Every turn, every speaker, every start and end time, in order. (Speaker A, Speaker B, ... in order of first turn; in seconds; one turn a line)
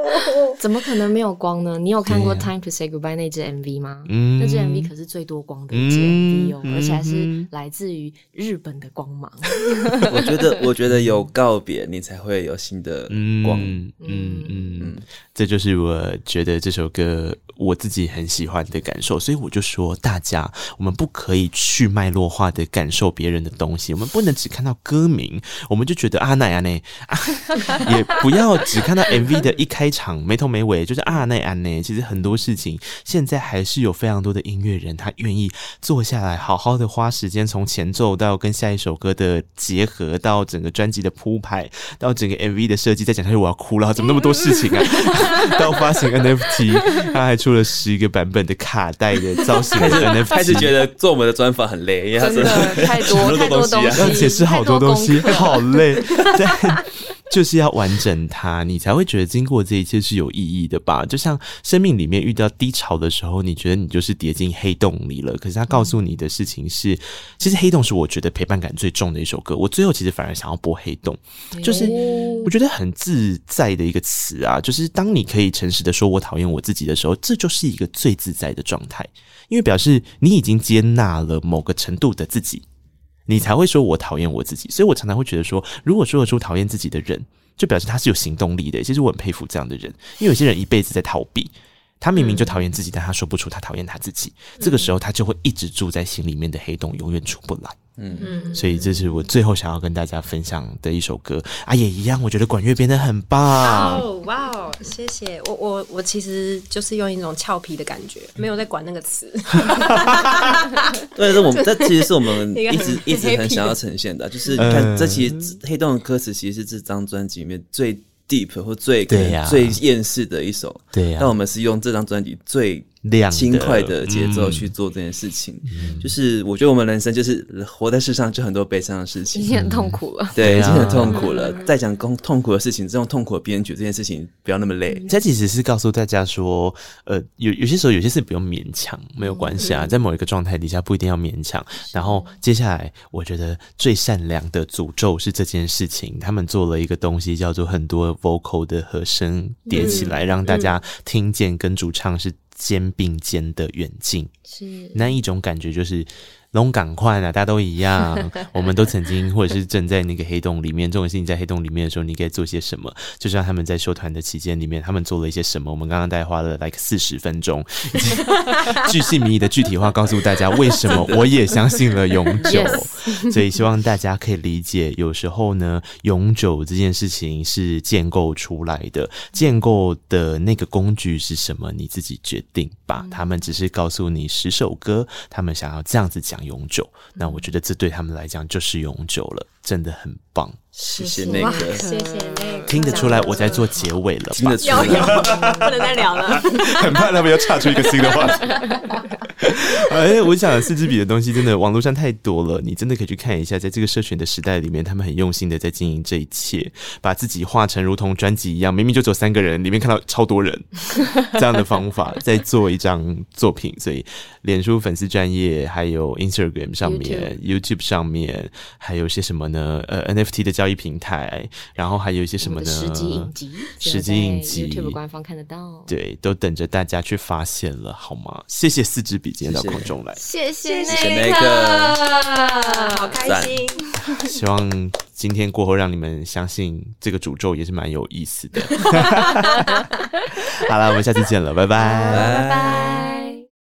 Speaker A: 0.6-10.2
Speaker B: 2.1-2.5
Speaker B: 4.1-4.9
Speaker B: 5.7-7.5
Speaker C: 10.0-13.8
Speaker B: 10.9-11.2
Speaker B: 13.1-50.7
Speaker A: 14.0-14.8
Speaker C: 14.8-15.0
Speaker A: 45.1-45.5
Speaker C: 49.8-54.2
Speaker A: 52.2-55.6
Speaker B: 53.9-82.6
Speaker A: 71.5-72.5
Speaker D: 71.8-72.4
Speaker B: 83.3-97.8
Speaker D: 94.6-94.9
Speaker C: 98.0-98.3
Speaker D: 98.2-98.9
Speaker B: 98.5-104.1
Speaker D: 103.5-113.8
Speaker B: 109.7-110.1
Speaker C: 111.1-129.5
Speaker B: 114.5-115.5
Speaker B: 119.1-119.8
Speaker B: 120.9-121.3
Speaker B: 123.0-124.7
Speaker B: 125.7-126.1
Speaker A: 129.3-130.7
Speaker B: 129.5-131.3
Speaker C: 130.3-135.0
Speaker D: 131.1-131.7
Speaker B: 135.1-154.3
Speaker A: 139.2-139.6
Speaker A: 141.8-142.3
Speaker A: 149.7-150.6
Speaker D: 149.7-150.6
Speaker A: 154.5-155.0
Speaker B: 154.9-190.6
Speaker A: 172.4-173.4
Speaker D: 172.5-172.8
Speaker A: 183.0-183.2
Speaker A: 187.2-187.5
Speaker D: 190.8-193.7
Speaker C: 190.9-191.8
Speaker A: 191.2-193.6
Speaker B: 192.7-198.7
Speaker C: 194.3-195.7
Speaker D: 194.6-199.0
Speaker A: 195.3-195.6
Speaker A: 198.6-198.9
Speaker B: 199.4-225.0
Speaker A: 216.8-217.3
Speaker A: 222.4-225.9
Speaker B: 225.9-230.2
Speaker C: 229.4-229.9
Speaker A: 230.2-232.9
Speaker D: 230.6-233.9
Speaker C: 230.9-232.0
Speaker C: 233.2-233.6
Speaker B: 234.2-242.4
Speaker A: 241.9-243.3
Speaker C: 242.1-243.0
Speaker D: 242.3-243.1